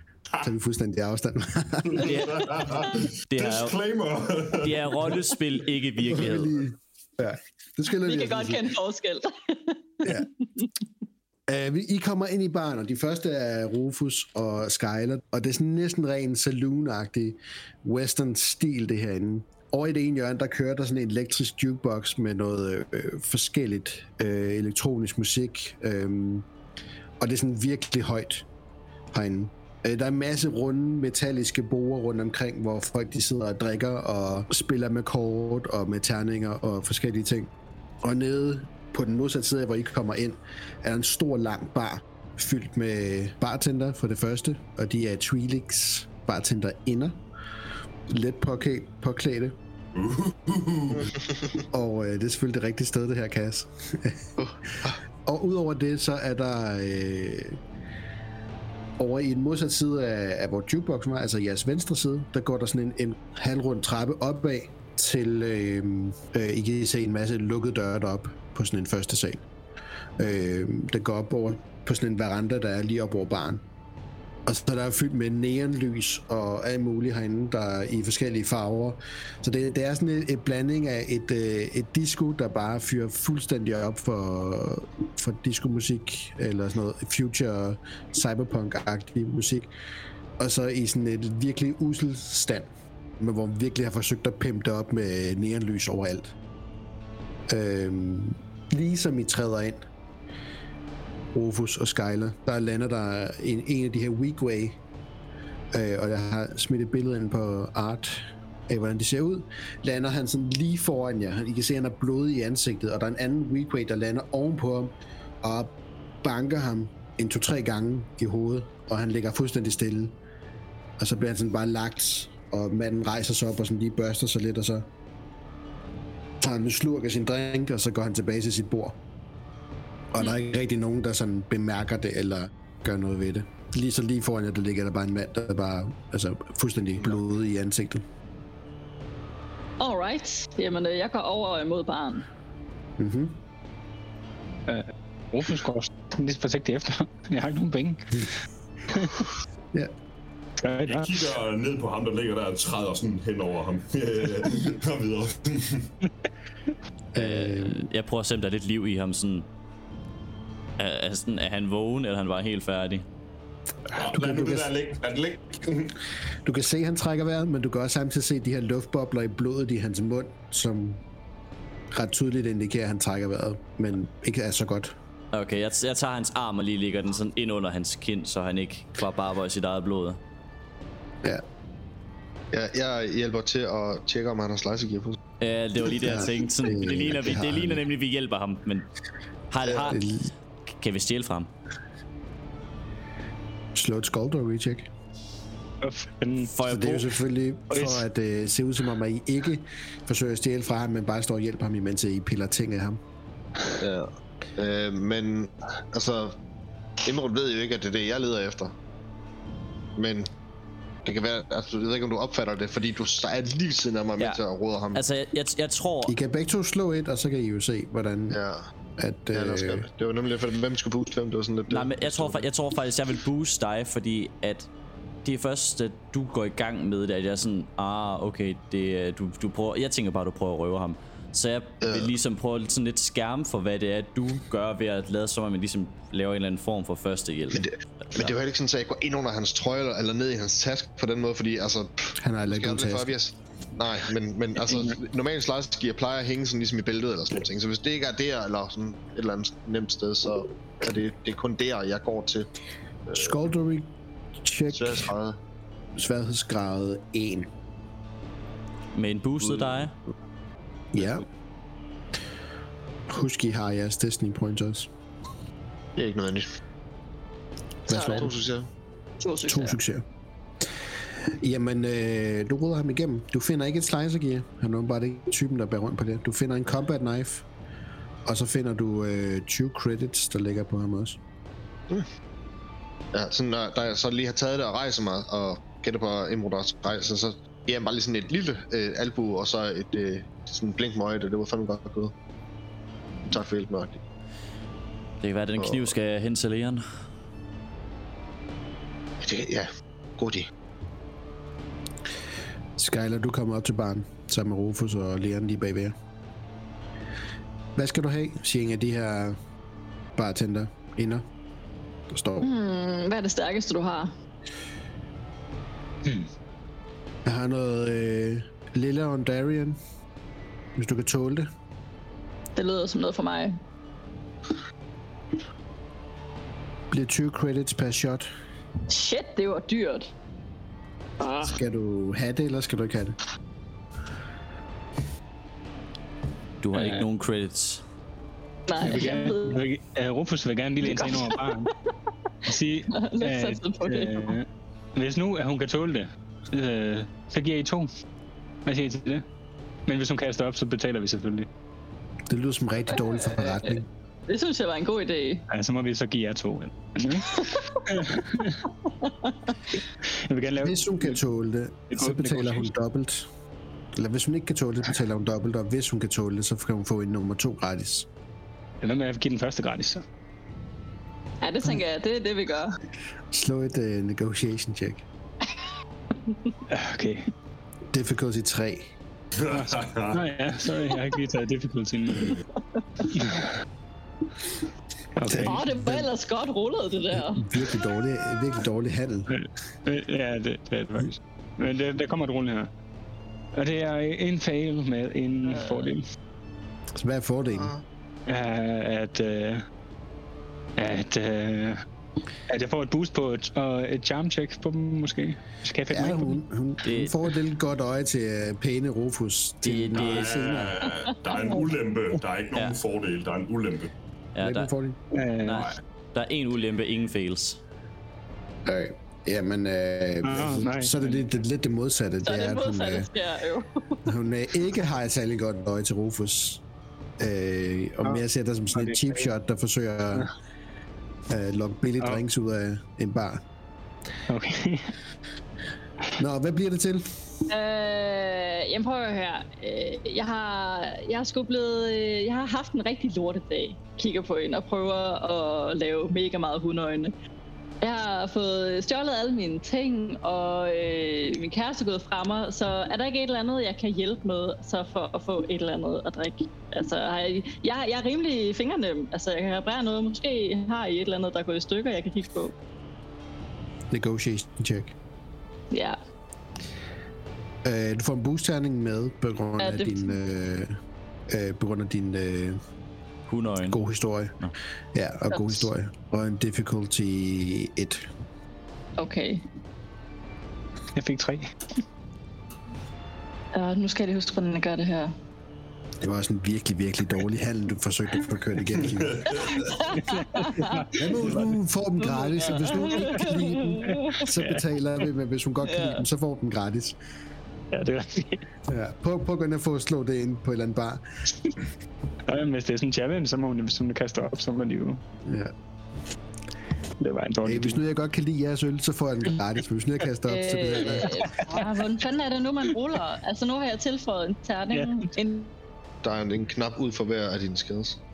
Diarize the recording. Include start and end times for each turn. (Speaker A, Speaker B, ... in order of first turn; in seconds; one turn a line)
Speaker A: 0.4-2.2
Speaker B: 1.8-5.3
Speaker C: 2.0-2.4
Speaker C: 3.3-3.7
Speaker C: 4.6-6.6
Speaker A: 6.0-8.7
Speaker D: 7.9-10.7
Speaker A: 11.5-26.5
Speaker A: 27.2-28.4
Speaker A: 29.1-47.2
Speaker A: 48.1-49.5
Speaker B: 49.9-51.1
Speaker E: 50.9-51.6
Speaker A: 51.7-54.3
Speaker E: 54.4-55.0
Speaker A: 55.2-57.6
Speaker A: 59.0-69.4
Speaker A: 70.2-73.6
Speaker A: 74.5-89.7
Speaker A: 90.4-96.3
Speaker A: 97.5-99.8
Speaker A: 101.3-104.8
Speaker A: 105.7-120.2
Speaker A: 121.0-124.9
Speaker A: 126.4-129.0
Speaker A: 130.1-138.0
Speaker D: 139.8-142.3
Speaker A: 143.0-143.4
Speaker F: 144.7-148.3
Speaker F: 148.9-149.3
Speaker F: 150.6-151.2
Speaker B: 150.8-155.9
Speaker A: 157.1-157.8
Speaker C: 157.1-159.5
Speaker C: 160.8-163.1
Speaker B: 163.9-165.9
Speaker A: 164.0-164.7
Speaker A: 166.4-171.0
Speaker A: 171.9-174.9
Speaker C: 175.3-180.2
Speaker E: 182.5-185.2
Speaker C: 185.4-188.9
Speaker A: 185.9-187.8
Speaker C: 189.5-190.0
Speaker A: 189.6-190.3
Speaker C: 190.7-191.5
Speaker A: 193.8-194.9
Speaker F: 195.8-196.5
Speaker C: 196.4-197.1
Speaker A: 196.7-203.0
Speaker F: 197.7-198.0
Speaker E: 203.8-206.4
Speaker E: 207.0-208.8
Speaker E: 210.0-210.3
Speaker E: 211.0-215.0
Speaker C: 214.9-216.1
Speaker A: 216.0-218.4
Speaker E: 218.3-218.7
Speaker A: 219.0-219.8
Speaker E: 219.3-222.4
Speaker C: 221.7-224.7
Speaker C: 225.2-238.3
Speaker E: 231.8-232.1
Speaker E: 237.5-252.5
Speaker A: 242.2-243.1
Speaker F: 244.6-244.9
Speaker E: 253.1-253.4
Speaker A: 253.1-253.9
Speaker A: 254.4-255.1
Speaker E: 254.7-255.4
Speaker A: 256.0-257.5
Speaker C: 258.9-259.9
Speaker E: 259.6-259.8
Speaker A: 260.9-261.2
Speaker A: 263.1-264.9
Speaker E: 266.0-266.5
Speaker D: 267.9-268.2
Speaker A: 267.9-268.3
Speaker E: 267.9-268.7
Speaker D: 269.2-269.8
Speaker A: 269.4-270.0
Speaker A: 271.2-277.4
Speaker A: 278.2-281.2
Speaker E: 283.1-292.1
Speaker E: 293.3-294.0
Speaker C: 295.2-296.8
Speaker E: 295.6-295.9
Speaker E: 299.2-300.5
Speaker A: 302.8-305.9
Speaker A: 307.8-309.4
Speaker A: 310.1-311.2
Speaker A: 312.1-312.5
Speaker D: 312.4-314.1
Speaker F: 316.0-316.3
Speaker A: 317.2-319.8
Speaker A: 320.8-321.5
Speaker D: 322.6-323.6
Speaker A: 326.9-328.3
Speaker D: 328.9-330.1
Speaker D: 331.2-331.6
Speaker A: 331.4-333.2
Speaker C: 336.6-337.8
Speaker F: 336.7-337.0
Speaker D: 338.7-339.6
Speaker F: 338.8-341.7
Speaker D: 340.8-341.7
Speaker F: 342.5-347.9
Speaker D: 342.9-344.4
Speaker F: 348.6-349.2
Speaker F: 349.9-351.5
Speaker A: 352.3-353.9
Speaker D: 352.9-355.4
Speaker F: 355.5-357.3
Speaker D: 357.2-357.8
Speaker F: 357.9-358.6
Speaker D: 358.9-359.3
Speaker F: 359.8-361.1
Speaker A: 360.6-363.3
Speaker F: 361.9-362.6
Speaker A: 363.9-368.1
Speaker F: 368.8-370.0
Speaker D: 371.4-372.8
Speaker A: 373.3-375.0
Speaker F: 376.7-377.2
Speaker A: 377.9-378.9
Speaker B: 379.4-380.2
Speaker F: 379.5-382.4
Speaker D: 382.7-383.1
Speaker F: 383.1-383.5
Speaker F: 385.2-385.6
Speaker A: 385.3-386.1
Speaker D: 385.3-387.7
Speaker A: 387.1-389.3
Speaker F: 389.3-392.7
Speaker F: 393.5-396.0
Speaker D: 395.4-395.9
Speaker A: 397.0-397.7
Speaker E: 397.5-397.8
Speaker F: 398.3-399.6
Speaker F: 400.8-401.8
Speaker F: 402.5-406.4
Speaker A: 405.9-410.8
Speaker C: 406.8-407.2
Speaker C: 409.6-410.5
Speaker B: 409.9-413.9
Speaker D: 411.3-411.7
Speaker C: 414.3-414.7
Speaker A: 414.4-415.0
Speaker F: 415.1-415.6
Speaker C: 415.4-417.6
Speaker B: 415.5-415.8
Speaker A: 418.6-423.1
Speaker F: 420.2-421.0
Speaker D: 422.2-424.0
Speaker A: 424.1-426.6
Speaker A: 427.2-430.3
Speaker F: 428.7-429.3
Speaker A: 431.3-433.4
Speaker F: 434.3-434.9
Speaker A: 436.2-437.0
Speaker D: 437.5-447.1
Speaker D: 447.8-462.5
Speaker A: 463.9-464.9
Speaker D: 465.7-466.0
Speaker A: 467.6-470.8
Speaker D: 469.6-470.1
Speaker A: 471.3-472.6
Speaker C: 473.3-473.8
Speaker A: 473.6-474.4
Speaker A: 474.9-478.0
Speaker D: 475.3-475.7
Speaker D: 479.0-479.4
Speaker F: 480.9-481.5
Speaker D: 483.5-485.1
Speaker A: 486.0-489.5
Speaker B: 488.8-489.8
Speaker D: 489.3-490.9
Speaker F: 490.0-491.1
Speaker A: 490.9-496.9
Speaker B: 491.2-491.5
Speaker D: 492.0-494.2
Speaker F: 492.5-493.2
Speaker F: 493.9-494.6
Speaker D: 495.6-496.0
Speaker F: 497.7-498.4
Speaker A: 498.7-501.0
Speaker F: 502.3-505.0
Speaker A: 505.2-505.5
Speaker F: 507.0-507.8
Speaker A: 507.4-511.2
Speaker D: 510.3-515.5
Speaker F: 511.0-511.7
Speaker F: 514.7-515.1
Speaker E: 516.0-518.0